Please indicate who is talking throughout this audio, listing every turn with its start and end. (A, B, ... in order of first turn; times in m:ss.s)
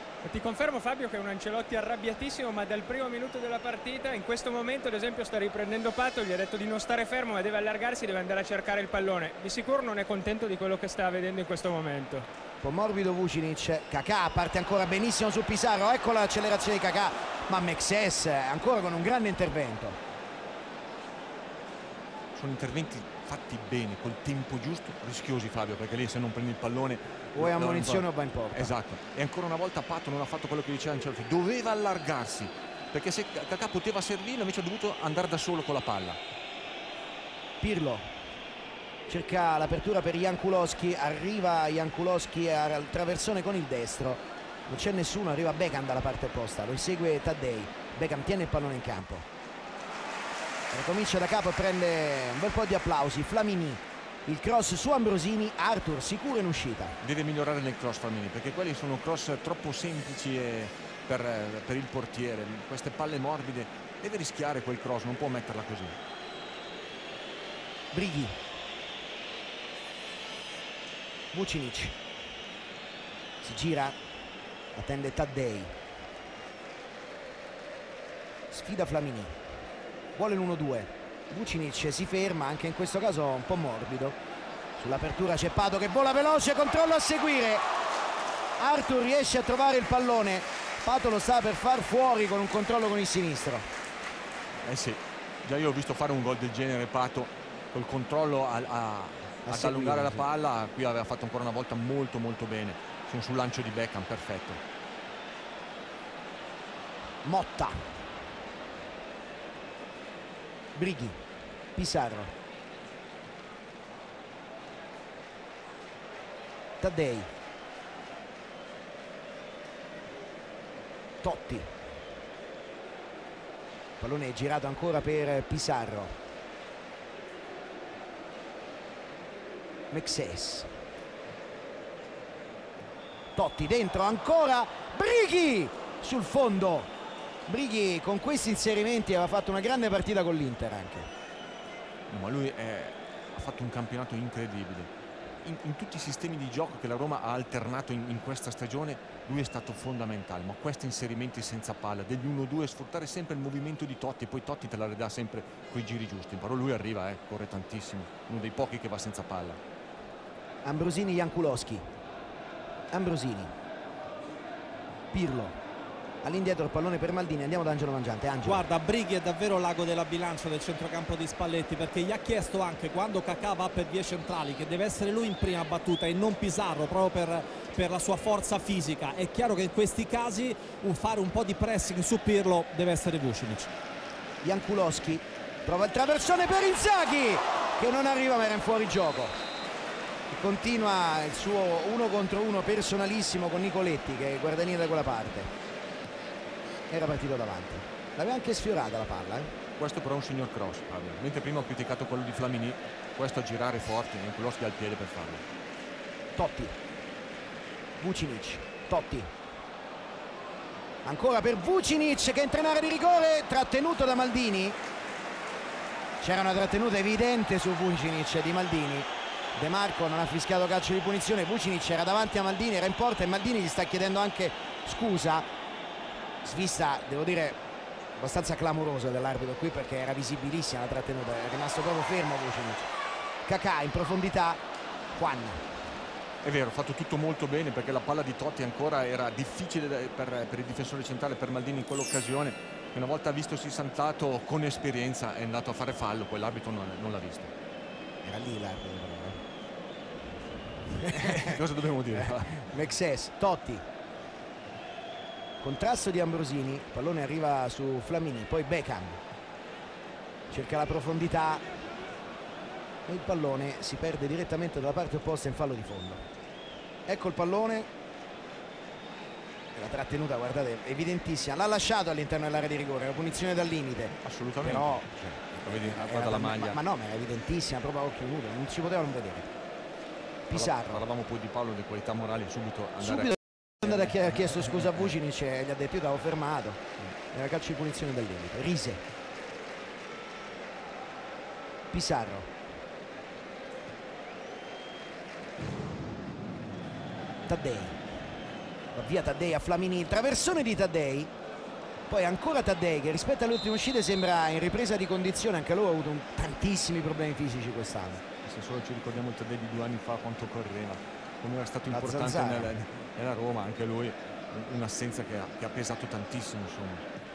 0:00.2-0:12.2 A
0:12.6-0:20.0 B
0:22.4-0:36.2 C
0:27.4-0:28.7 B
0:37.6-0:38.0 B
0:39.1-0:49.2 B
0:50.7-0:57.0 B
0:57.0-1:06.0 C
1:07.9-1:08.4 B
1:11.3-1:11.9 B
1:13.4-1:13.9 B
1:14.7-1:15.7 B
1:18.5-1:19.3 B
1:20.2-1:24.2 B
1:24.8-1:27.6 B
1:28.6-1:33.6 B
1:34.6-1:44.6 C
1:39.4-1:40.2 B
1:47.2-1:47.8 B
1:50.8-1:51.2 B
1:51.8-1:52.3 B
1:56.8-1:57.3 B
2:01.2-2:01.7 B
2:04.0-2:06.1 B
2:09.9-2:10.7 B
2:13.4-2:16.9 B
2:17.5-2:21.1 B
2:22.1-2:24.9 C
2:25.4-2:39.6 C
2:40.6-2:41.8 B
2:42.9-2:43.5 B
2:45.1-2:45.6 B
2:46.2-2:48.6 B
2:48.4-3:03.7 D
3:04.4-3:09.3 B
3:10.3-3:15.5 B
3:16.9-3:19.5 B
3:19.8-3:25.4 C
3:26.4-3:26.7 B
3:28.0-3:29.3 B
3:31.0-3:34.8 B
3:36.2-3:45.4 B
3:46.4-3:47.6 B
3:48.2-3:52.9 B
3:53.4-3:54.6 B
3:55.1-3:55.6 B
3:56.4-4:07.5 C
4:08.2-4:09.4 B
4:10.9-4:11.6 B
4:11.1-4:12.7 C
4:12.1-4:13.8 B
4:15.6-4:19.2 B
4:20.5-4:21.6 B
4:23.1-4:26.2 B
4:27.1-4:27.9 B
4:29.7-4:39.5 B
4:34.2-4:36.8 C
4:40.5-4:41.0 B
4:40.5-4:45.0 C
4:43.0-4:46.8 B
4:47.3-4:49.0 B
4:51.9-4:52.5 B
4:57.5-4:58.0 B
4:58.9-5:01.3 B
5:02.1-5:08.2 B
5:08.4-5:17.0 C
5:11.9-5:12.7 B